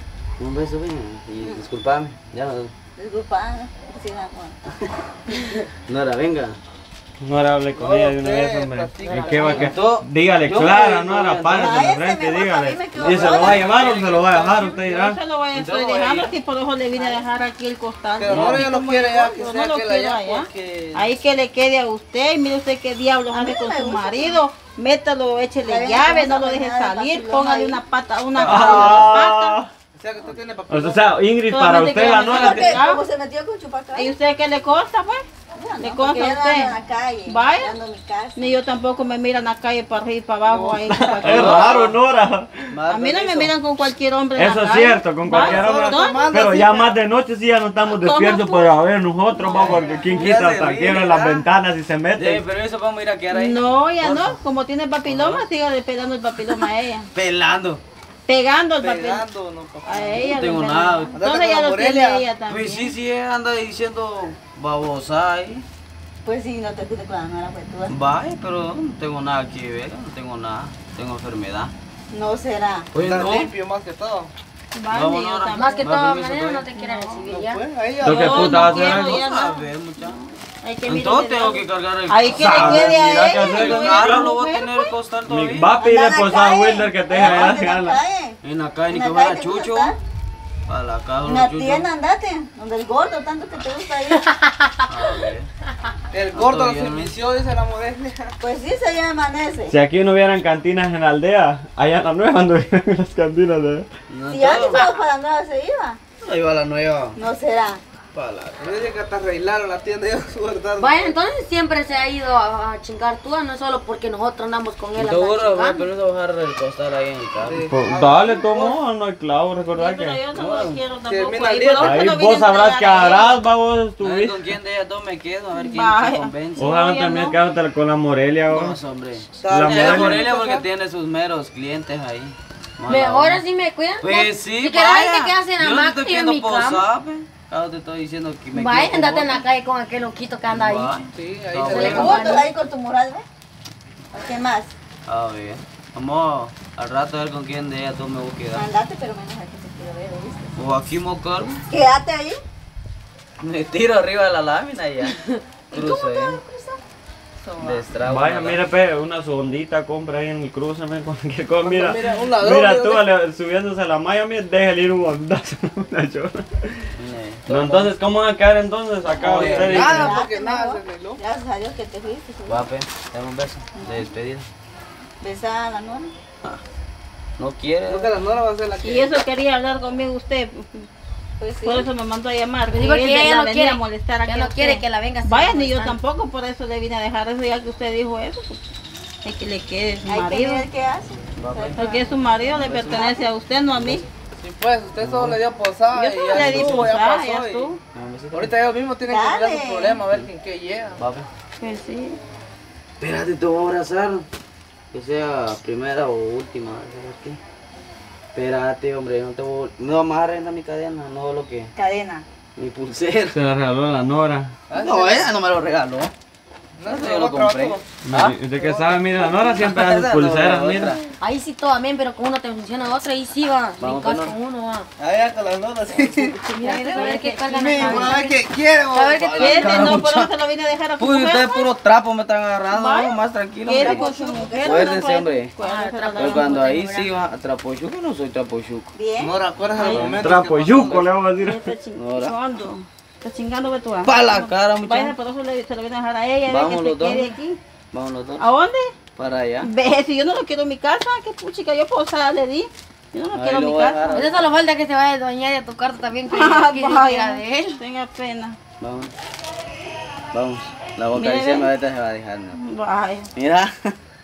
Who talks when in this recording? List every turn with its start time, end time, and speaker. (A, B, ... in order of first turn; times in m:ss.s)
0:00.4-0:02.7 A
0:03.0-0:04.6 B
0:05.9-0:06.6 A
0:07.2-0:15.2 C
0:07.7-0:09.7 D
0:09.4-0:11.9 A
0:11.5-0:13.7 B
0:13.0-0:14.0 A
0:13.2-0:14.7 D
0:14.8-0:29.6 E
0:15.5-0:16.3 A
0:16.9-0:17.4 B
0:18.2-0:21.1 D
0:18.3-0:18.7 A
0:23.3-0:24.4 B
0:25.6-0:27.8 B
0:28.4-0:29.2 D
0:28.4-0:29.7 C
0:30.0-0:31.2 D
0:30.7-0:32.8 C
0:31.5-0:33.0 E
0:32.1-0:34.2 B
0:33.9-0:35.2 E
0:35.5-0:38.6 B
0:35.8-0:36.8 E
0:37.3-0:37.8 E
0:38.4-0:41.7 E
0:40.4-0:40.8 D
0:40.8-0:42.7 C
0:41.2-0:42.0 A
0:42.7-0:43.5 A
0:42.9-0:46.3 E
0:44.4-0:52.4 C
0:45.3-0:47.0 D
0:47.9-0:48.7 E
0:49.4-0:50.2 B
0:49.5-0:49.8 E
0:50.1-0:51.5 A
0:52.2-0:54.4 A
0:53.3-0:57.1 E
0:55.1-0:55.4 A
0:57.1-0:57.8 A
0:58.3-0:59.3 E
0:58.8-1:00.3 D
0:59.8-1:02.9 E
1:00.2-1:01.2 A
1:01.2-1:02.2 D
1:02.5-1:05.6 A
1:06.2-1:07.9 B
1:07.9-1:11.7 A
1:12.1-1:12.9 B
1:12.9-1:13.5 A
1:13.0-1:14.3 D
1:14.7-1:16.0 E
1:14.9-1:16.7 A
1:15.5-1:17.6 F
1:16.8-1:17.3 E
1:17.2-1:18.7 D
1:18.0-1:24.9 E
1:18.0-1:19.2 C
1:18.6-1:20.2 A
1:20.9-1:25.7 A
1:22.3-1:24.3 C
1:25.3-1:28.0 C
1:25.8-1:28.4 B
1:28.4-1:30.0 A
1:28.9-1:30.0 B
1:30.7-1:31.9 A
1:31.2-1:34.2 B
1:34.2-1:35.2 F
1:34.9-1:35.5 A
1:36.1-1:38.4 D
1:36.3-1:37.1 A
1:38.4-1:39.7 B
1:39.7-1:43.9 C
1:44.1-1:44.9 A
1:44.3-1:46.0 B
1:44.7-1:45.0 F
1:46.2-1:47.2 A
1:47.2-1:47.8 B
1:48.1-1:48.8 A
1:48.6-1:51.2 D
1:50.8-1:55.8 F
1:55.0-1:57.6 A
1:57.4-1:58.8 D
1:57.7-2:00.2 C
1:59.8-2:03.4 E
2:00.3-2:00.8 A
2:01.0-2:02.1 D
2:01.8-2:04.4 C
2:04.0-2:06.7 A
2:05.6-2:07.4 E
2:06.6-2:08.8 C
2:08.5-2:13.4 A
2:09.4-2:10.7 D
2:09.5-2:10.2 C
2:12.9-2:16.8 F
2:14.0-2:19.4 A
2:18.5-2:21.0 F
2:20.5-2:22.3 A
2:21.1-2:22.2 D
2:21.6-2:22.5 F
2:21.8-2:23.2 B
2:24.1-2:24.7 B
2:25.1-2:28.6 A
2:28.5-2:30.5 B
2:30.6-2:31.7 A
2:31.7-2:32.4 B
2:33.4-2:35.2 A
2:35.7-2:36.4 A
2:35.7-2:36.8 B
2:37.4-2:37.8 B
2:37.6-2:38.6 A
2:38.0-2:46.9 C
2:41.6-2:43.0 D
2:47.0-2:47.9 A
2:47.5-2:50.2 C
2:49.2-2:50.1 A
2:49.3-2:51.2 D
2:49.5-2:52.6 B
2:52.5-2:54.5 A
2:53.8-2:54.1 B
2:55.2-2:56.1 B
2:57.4-2:58.1 A
2:57.9-2:59.1 D
2:58.8-3:00.9 E
3:01.4-3:01.9 B
3:01.6-3:08.6 E
3:02.7-3:06.0 F
3:09.2-3:10.7 E
3:10.1-3:12.2 B
3:11.3-3:11.8 A
3:11.8-3:14.1 E
3:12.5-3:13.2 A
3:13.0-3:13.2 B
3:13.7-3:14.0 A
3:14.4-3:17.7 D
3:15.0-3:15.4 A
3:15.9-3:17.8 E
3:16.4-3:16.8 A
3:17.9-3:18.5 A
3:18.3-3:21.0 D
3:19.0-3:20.0 B
3:21.0-3:21.3 A
3:21.6-3:22.2 E
3:23.0-3:24.2 A
3:24.9-3:27.4 A
3:28.3-3:31.7 A
3:31.8-3:32.2 B
3:32.6-3:33.4 A
3:33.3-3:34.5 C
3:34.7-3:35.3 D
3:34.7-3:36.1 A
3:36.8-3:37.9 D
3:36.9-3:38.4 A
3:38.0-3:40.9 C
3:38.6-3:38.9 D
3:39.2-3:41.0 A
3:41.2-3:44.9 F
3:43.8-3:44.4 A
3:45.0-3:46.4 D
3:45.9-3:48.0 A
3:46.5-3:49.8 F
3:46.6-3:48.0 E
3:47.5-3:50.0 D
3:49.2-3:50.3 A
3:49.4-3:51.7 E
3:51.0-3:54.1 A
3:52.7-3:56.6 E
3:53.8-3:54.9 B
3:54.6-3:55.5 A
3:55.6-3:57.1 F
3:56.2-3:58.9 A
3:58.9-3:59.4 B
3:59.2-4:01.1 D
3:59.8-4:00.2 E
3:59.9-4:00.2 A
4:00.2-4:01.6 C
4:01.4-4:07.6 E
4:02.0-4:02.3 A
4:04.0-4:05.2 A
4:06.5-4:07.3 A
4:07.9-4:08.4 A
4:08.4-4:08.9 E
4:09.2-4:09.7 A
4:09.6-4:14.3 E
4:13.3-4:14.5 A
4:14.1-4:17.8 F
4:16.3-4:18.6 E
4:18.8-4:19.1 A
4:20.3-4:22.6 A
4:21.1-4:21.7 E
4:22.5-4:23.3 E
4:23.4-4:24.0 A